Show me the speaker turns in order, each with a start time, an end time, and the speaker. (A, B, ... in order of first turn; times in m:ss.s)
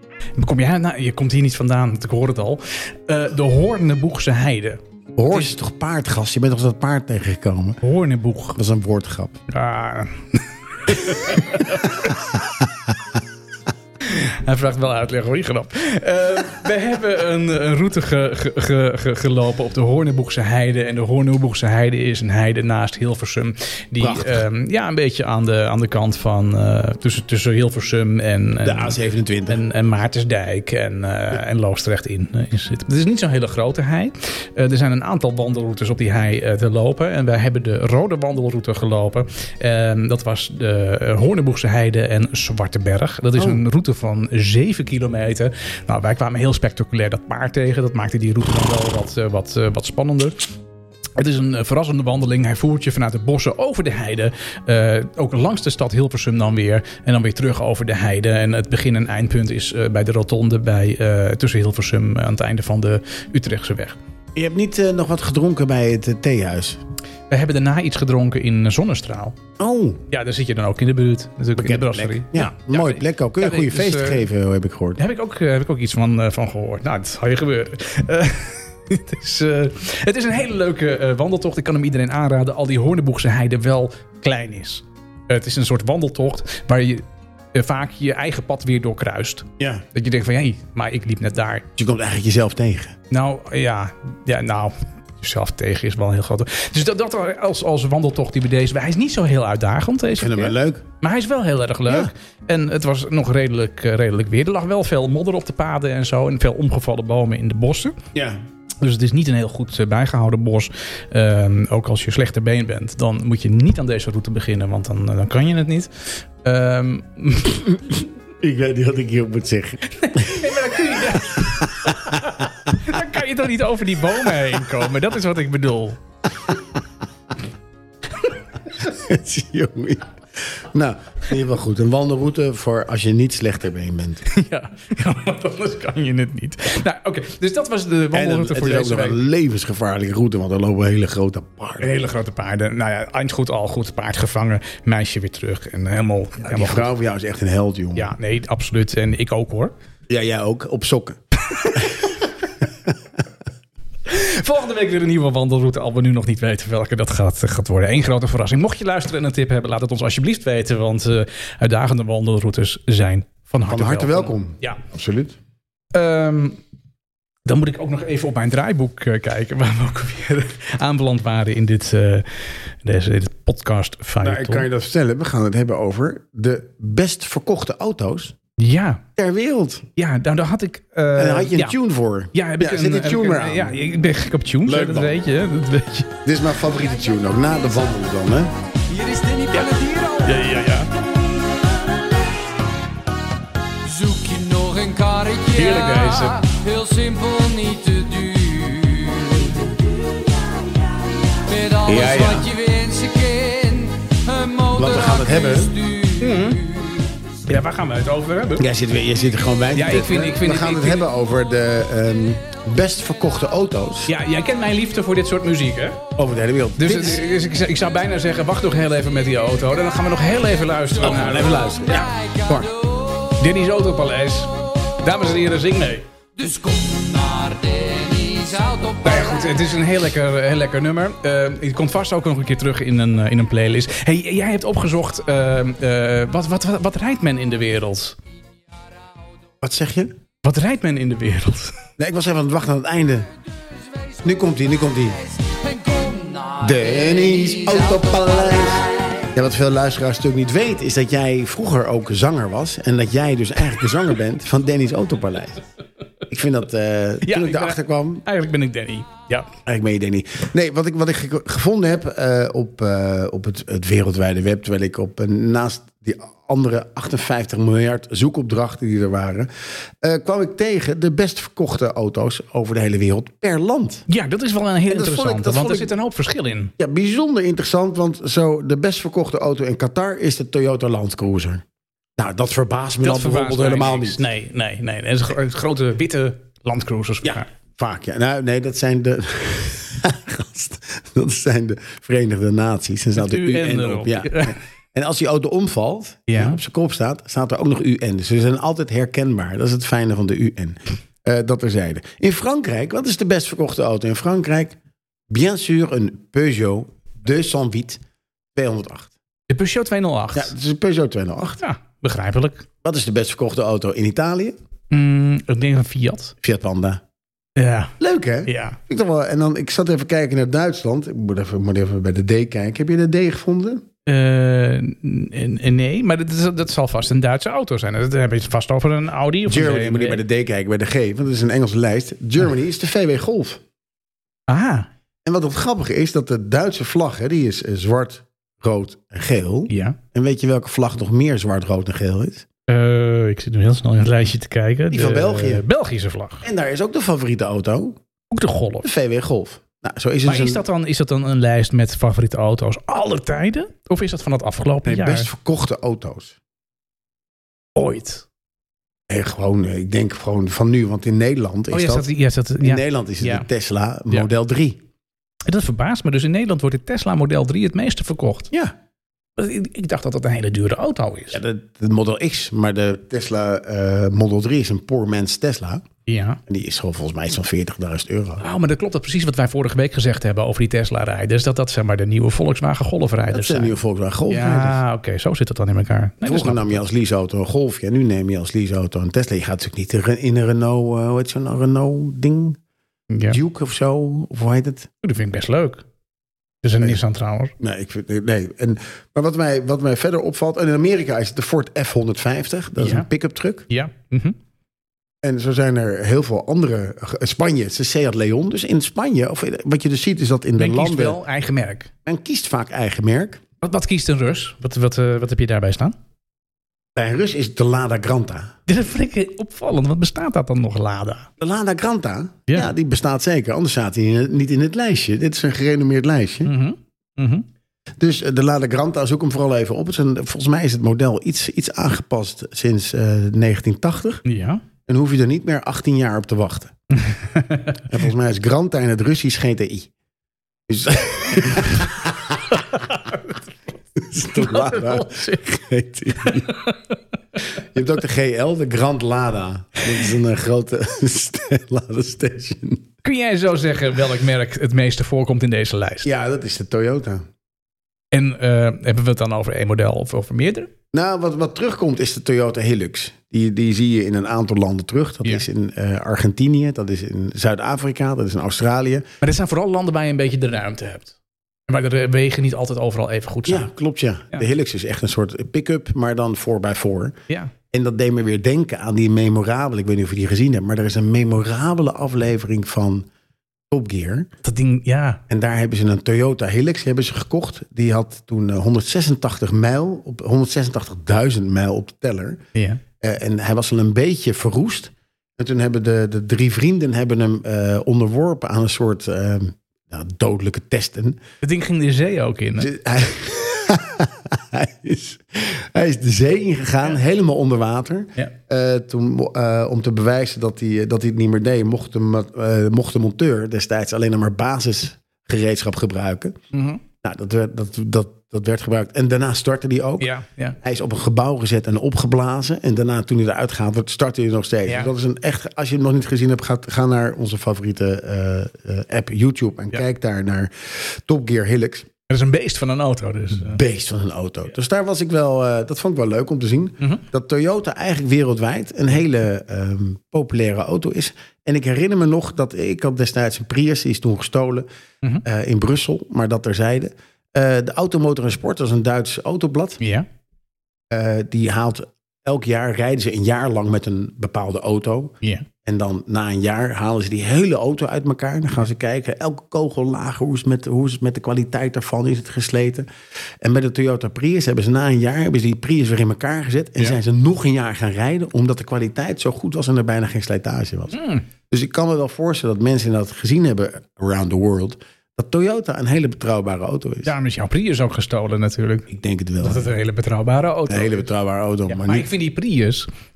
0:00.4-0:05.5 A
0:05.2-0:07.8 B
0:07.8-0:08.6 A
0:08.5-0:09.4 B
0:09.5-0:12.2 A
0:14.0-0:50.4 A
0:24.0-0:24.4 B
0:28.6-0:29.6 B
0:51.2-1:04.0 A
1:04.3-1:06.8 B
1:07.3-1:09.4 A
1:09.6-1:10.0 B
1:10.1-1:14.2 A
1:11.6-1:15.0 B
1:15.0-1:31.6 A
1:29.6-1:29.8 B
1:31.8-1:32.9 B
1:33.1-1:48.0 A
1:40.2-1:40.8 B
1:48.8-1:57.8 A
1:58.4-2:00.5 B
1:59.9-2:06.0 A
2:01.4-2:02.5 B
2:08.7-2:14.2 B
2:14.3-2:19.2 A
2:18.1-2:21.9 B
2:21.8-2:26.9 A
2:26.4-2:28.1 B
2:28.0-2:29.7 A
2:30.1-2:31.2 B
2:31.6-2:31.8 A
2:31.7-2:32.1 B
2:34.0-2:44.8 A
2:43.6-2:45.4 B
2:45.9-2:46.6 A
2:47.4-2:54.7 A
2:54.2-2:58.3 B
2:58.6-2:59.0 A
2:59.2-2:59.8 B
3:00.0-3:01.8 A
3:01.1-3:03.8 B
3:02.3-3:06.2 A
3:04.6-3:05.2 B
3:06.2-3:08.5 B
3:08.9-3:10.4 C
3:10.2-3:10.9 A
3:11.3-3:12.1 C
3:13.8-3:27.1 C
3:15.6-3:16.4 A
3:21.8-3:22.5 B
3:24.7-3:25.7 B
3:26.2-3:26.6 A
3:27.5-3:28.7 A
3:28.6-3:34.1 B
3:29.7-3:31.0 A
3:34.1-3:36.0 A
3:36.2-3:37.2 B
3:36.8-3:42.1 A
3:41.0-3:42.7 B
3:41.8-3:43.3 C
3:43.4-3:46.1 A
3:46.4-3:49.6 C
3:49.0-3:58.2 A
3:59.6-4:00.1 B
4:00.4-4:01.8 A
4:02.0-4:03.3 B
4:04.2-4:05.2 B
4:05.4-4:09.3 C
4:06.6-4:15.6 B
4:16.3-4:18.2 B
4:17.2-4:19.5 A
4:19.6-4:29.5 B
4:30.0-4:34.0 B
4:34.1-4:36.7 A
4:34.9-4:35.9 B
4:36.8-4:41.6 B
4:42.2-4:44.2 B
4:43.0-4:47.5 A
4:47.2-5:04.8 B
4:53.2-4:54.5 A
4:56.3-4:56.6 A
5:05.3-5:08.0 B
5:08.5-5:09.1 B
5:09.5-5:10.5 A
5:10.3-5:11.6 B
5:11.6-5:12.7 A
5:12.8-5:14.6 B
5:14.9-5:16.3 A
5:16.4-5:17.0 B
5:17.6-5:17.9 A
5:18.0-5:23.8 B
5:18.4-5:18.8 A
5:24.0-5:30.2 A
5:29.4-5:33.6 B
5:34.5-5:34.9 A
5:35.2-5:42.4 B
5:39.7-5:40.0 A
5:42.7-5:46.4 A
5:44.9-5:45.6 B
5:46.4-5:48.0 B
5:48.3-5:48.9 A
5:48.8-5:50.6 B
5:50.2-5:55.3 A
5:54.8-5:56.4 B
5:57.7-5:58.2 A
5:59.1-6:02.1 B
6:01.7-6:03.5 A
6:02.6-6:04.8 B
6:05.4-6:08.5 A
6:09.4-6:11.4 A
6:11.3-6:15.8 B
6:16.0-6:16.4 A
6:16.5-6:18.4 B
6:18.4-6:23.7 A
6:23.3-6:24.8 B
6:24.3-6:26.8 A
6:26.2-6:32.6 B
6:33.1-6:33.4 A
6:33.3-6:34.9 B
6:35.0-6:35.8 A
6:36.6-6:37.5 A
6:37.6-6:43.6 B
6:42.8-6:43.1 A
6:43.7-6:44.4 A
6:45.2-6:51.2 B
6:50.6-6:51.9 A
6:52.0-6:53.4 B
6:53.6-6:56.0 A
6:56.9-6:58.5 B
6:58.7-7:01.3 A
7:01.4-7:06.5 B
7:06.4-7:07.4 A
7:08.0-7:14.2 B
7:14.2-7:14.6 A
7:14.8-7:16.7 B
7:17.0-7:17.8 A
7:17.9-7:19.9 B
7:20.7-7:22.6 B
7:22.6-7:23.4 A
7:24.0-7:26.5 B
7:24.3-7:25.4 A
7:26.2-7:27.0 A
7:27.7-7:32.8 B
7:33.0-7:36.1 A
7:36.0-7:37.3 B
7:38.1-7:40.7 A
7:40.9-7:49.0 B
7:49.2-7:51.1 A
7:51.7-7:53.7 A
7:53.5-7:57.2 B
7:57.7-8:03.1 B
8:03.7-8:04.3 B
8:04.4-8:05.2 A
8:05.3-8:12.4 B
8:12.5-8:12.8 A
8:13.0-8:21.2 B
8:21.4-8:22.7 A
8:22.6-8:36.3 B
8:36.5-8:36.8 A
8:37.0-8:51.9 B
8:40.0-8:40.6 A
8:44.6-8:44.9 A
8:52.1-8:53.6 A
8:53.4-9:04.7 B
9:05.2-9:09.8 B
9:09.8-9:10.0 A
9:10.9-9:22.9 B
9:15.2-9:15.5 A
9:23.4-9:37.1 B
9:30.9-9:31.2 A
9:37.0-9:38.9 A
9:38.9-9:39.7 B
9:39.4-9:41.1 A
9:40.7-9:42.1 B
9:41.7-9:42.9 A